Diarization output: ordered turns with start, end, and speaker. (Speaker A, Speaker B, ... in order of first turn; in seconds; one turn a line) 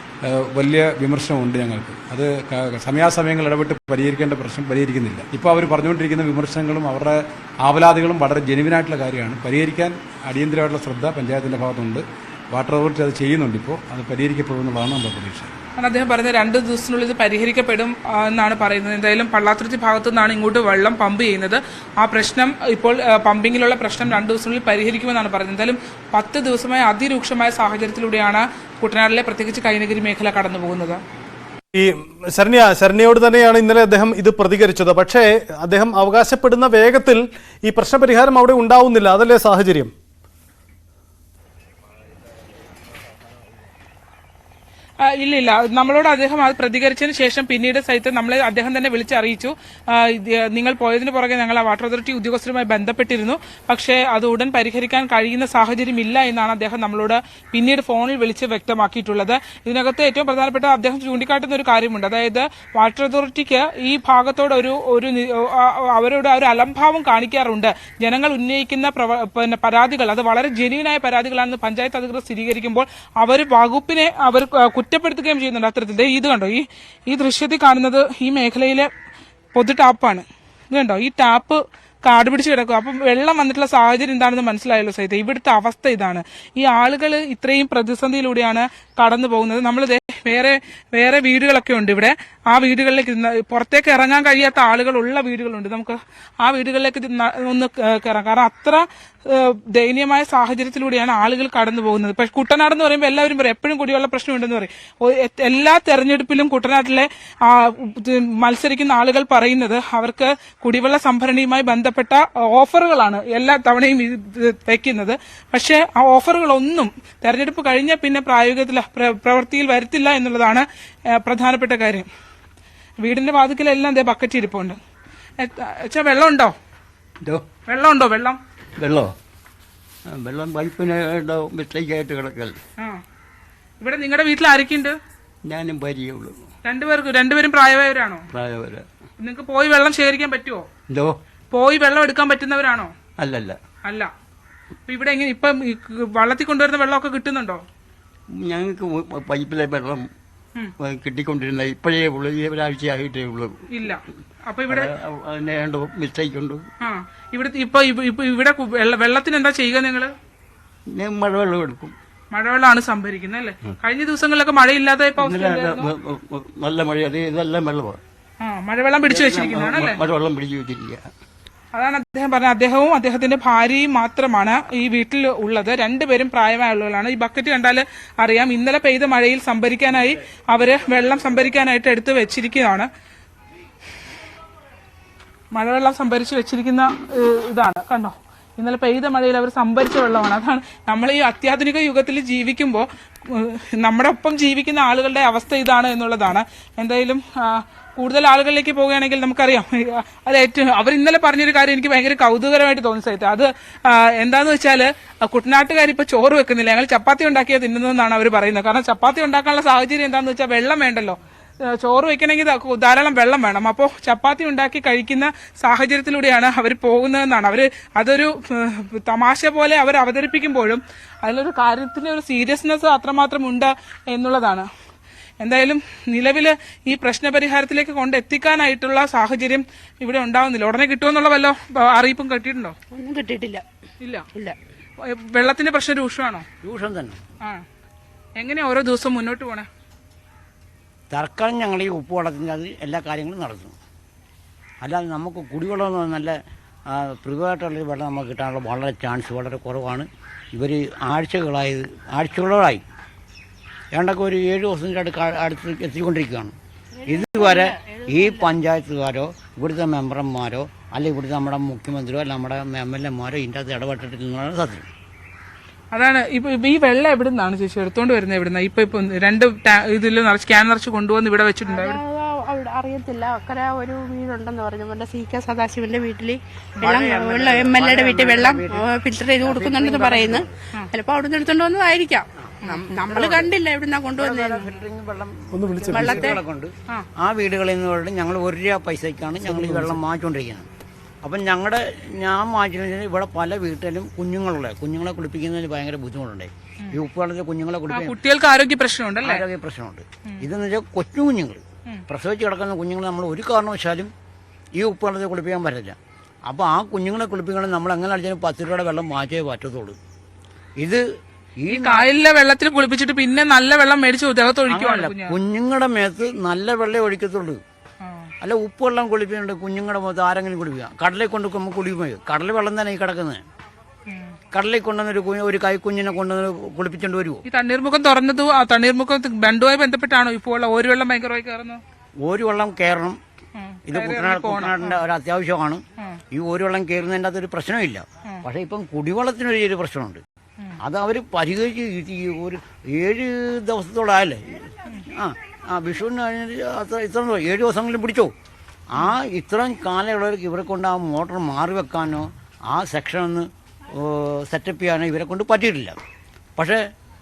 Speaker A: 0.2-15.5
Speaker B: 15.8-31.0
Speaker C: 31.7-39.9
Speaker B: 45.0-78.9
Speaker B: 79.5-122.1
Speaker B: 123.0-124.8
Speaker B: 125.4-126.5
Speaker B: 127.7-128.4
Speaker D: 128.8-129.1
Speaker D: 130.1-132.6
Speaker B: 133.8-135.0
Speaker D: 135.4-136.4
Speaker B: 136.6-138.2
Speaker D: 138.3-138.8
Speaker B: 139.2-140.7
Speaker D: 140.9-141.1
Speaker B: 141.5-142.9
Speaker D: 143.2-143.6
Speaker B: 143.8-144.1
Speaker B: 144.9-147.6
Speaker D: 148.3-150.1
Speaker D: 150.8-153.5
Speaker B: 153.7-154.9
Speaker D: 154.7-156.6
Speaker B: 156.8-160.1
Speaker D: 160.9-161.9
Speaker B: 162.3-165.9
Speaker D: 165.2-168.0
Speaker B: 168.4-170.0
Speaker D: 169.1-171.0
Speaker B: 171.7-182.9
Speaker B: 185.5-211.2
Speaker B: 211.8-224.7
Speaker B: 225.4-232.8
Speaker E: 232.9-233.6
Speaker B: 235.1-236.4
Speaker F: 236.6-237.2
Speaker B: 238.4-239.7
Speaker F: 241.1-243.8
Speaker F: 244.8-246.4
Speaker F: 246.9-252.8
Speaker F: 253.9-256.5
Speaker E: 257.0-258.5
Speaker F: 257.1-264.9
Speaker B: 265.9-272.0
Speaker E: 271.6-284.7
Speaker F: 276.8-278.9
Speaker F: 279.4-280.5
Speaker F: 282.4-283.5
Speaker F: 284.2-290.6
Speaker C: 285.5-286.3
Speaker E: 285.9-286.4
Speaker D: 289.5-289.9
Speaker F: 291.2-298.2
Speaker B: 297.9-299.4
Speaker F: 299.2-304.1
Speaker F: 304.8-309.9
Speaker F: 311.6-312.1
Speaker B: 311.7-315.4
Speaker F: 314.7-317.6
Speaker B: 318.0-318.3
Speaker F: 318.4-323.4
Speaker B: 324.1-324.3
Speaker F: 324.5-327.4
Speaker B: 327.4-331.8
Speaker F: 332.2-333.2
Speaker B: 333.6-335.0
Speaker F: 333.9-340.2
Speaker F: 340.8-348.3
Speaker F: 348.9-355.9